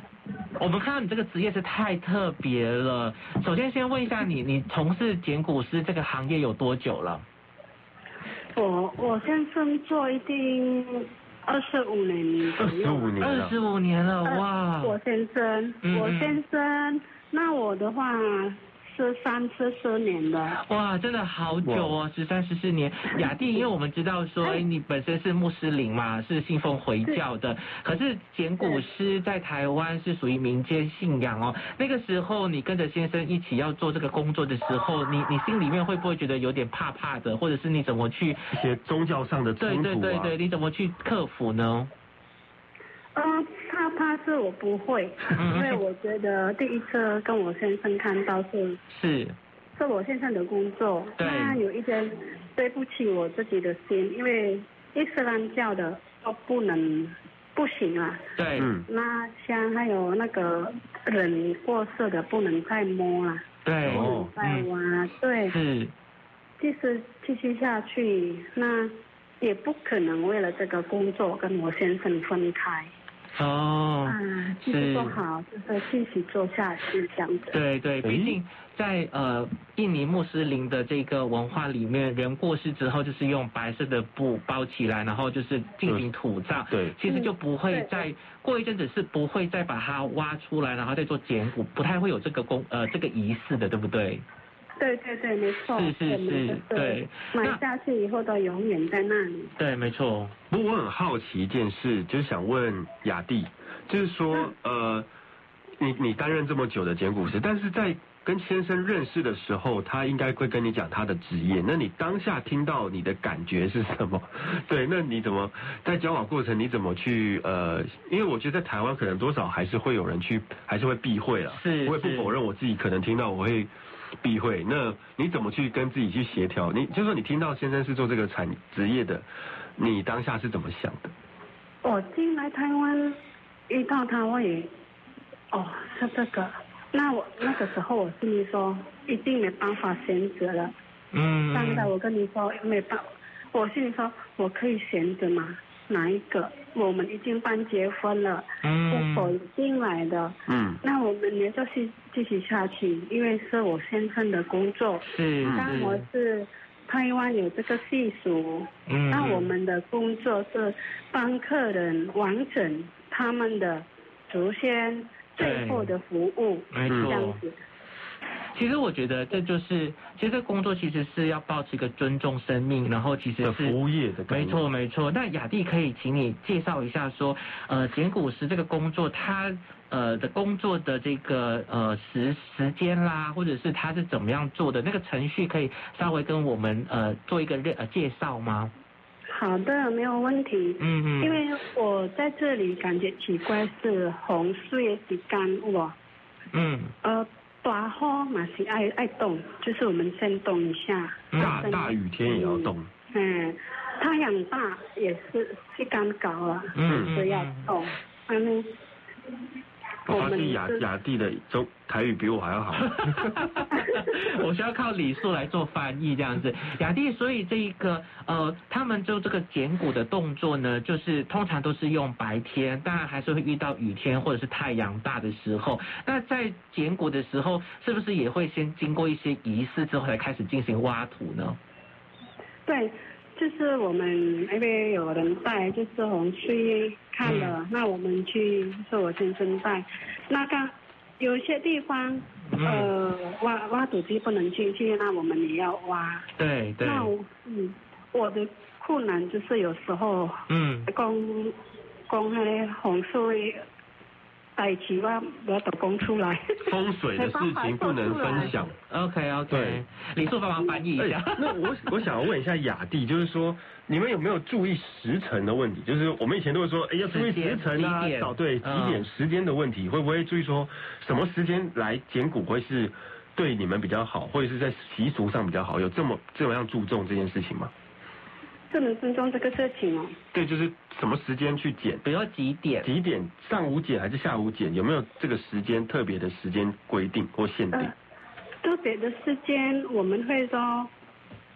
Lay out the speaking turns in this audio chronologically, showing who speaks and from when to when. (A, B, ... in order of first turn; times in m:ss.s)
0:00.6-0:07.2 A
0:08.6-0:13.2 B
0:12.6-0:13.6 C
0:13.2-0:15.0 A
0:14.2-0:20.6 B
0:15.8-0:16.4 A
0:20.6-0:38.5 A
0:21.6-0:22.0 C
0:38.5-0:40.3 C
0:39.6-0:41.9 A
0:43.2-0:48.8 B
0:45.4-0:45.8 A
0:48.9-0:49.4 A
0:49.8-0:58.2 B
0:51.2-0:51.6 A
0:58.4-0:58.7 A
0:58.6-0:58.9 C
0:58.9-1:03.4 B
1:03.6-1:04.7 A
1:03.8-1:04.3 C
1:04.0-1:05.6 B
1:05.5-1:05.9 A
1:06.6-1:12.9 B
1:13.4-1:15.2 A
1:14.1-1:17.6 B
1:17.5-1:34.2 A
1:18.0-1:18.4 C
1:26.7-1:27.0 C
1:27.1-1:28.0 B
1:34.8-1:39.5 B
1:35.6-1:37.6 A
1:39.6-1:40.4 A
1:40.5-1:45.1 C
1:45.8-2:03.7 C
2:01.5-2:02.3 A
2:04.2-2:09.3 C
2:09.8-2:11.1 C
2:11.8-2:13.2 B
2:13.7-2:14.7 B
2:15.5-2:20.7 B
2:21.1-2:21.9 A
2:21.5-2:47.6 B
2:28.6-2:29.3 A
2:30.5-2:30.8 C
2:35.0-2:36.1 A
2:35.4-2:35.8 C
2:38.9-2:39.5 A
2:45.4-2:45.9 A
2:46.7-2:47.4 A
2:46.9-2:47.2 C
2:48.5-2:53.8 A
2:53.4-2:54.7 C
2:54.3-3:08.7 A
3:09.3-3:16.0 B
3:10.8-3:11.4 A
3:16.5-3:16.9 A
3:17.0-3:28.7 B
3:21.3-3:21.7 A
3:21.4-3:22.9 C
3:26.8-3:27.7 A
3:26.9-3:27.1 C
3:30.1-3:33.2 C
3:30.1-3:30.8 B
3:32.9-3:51.6 A
3:52.7-4:06.3 B
3:57.2-3:57.6 A
4:02.5-4:02.9 A
4:06.4-4:07.1 A
4:06.8-4:11.6 B
4:10.5-4:10.9 A
4:12.1-4:13.6 B
4:14.6-4:18.5 B
4:16.6-4:18.8 C
4:18.9-4:21.6 A
4:19.5-4:19.8 C
4:21.0-4:37.7 C
4:27.0-4:29.1 A
4:38.7-4:40.2 B
4:40.3-4:42.0 C
4:42.0-4:42.9 A
4:42.8-4:47.9 C
4:48.6-4:50.9 B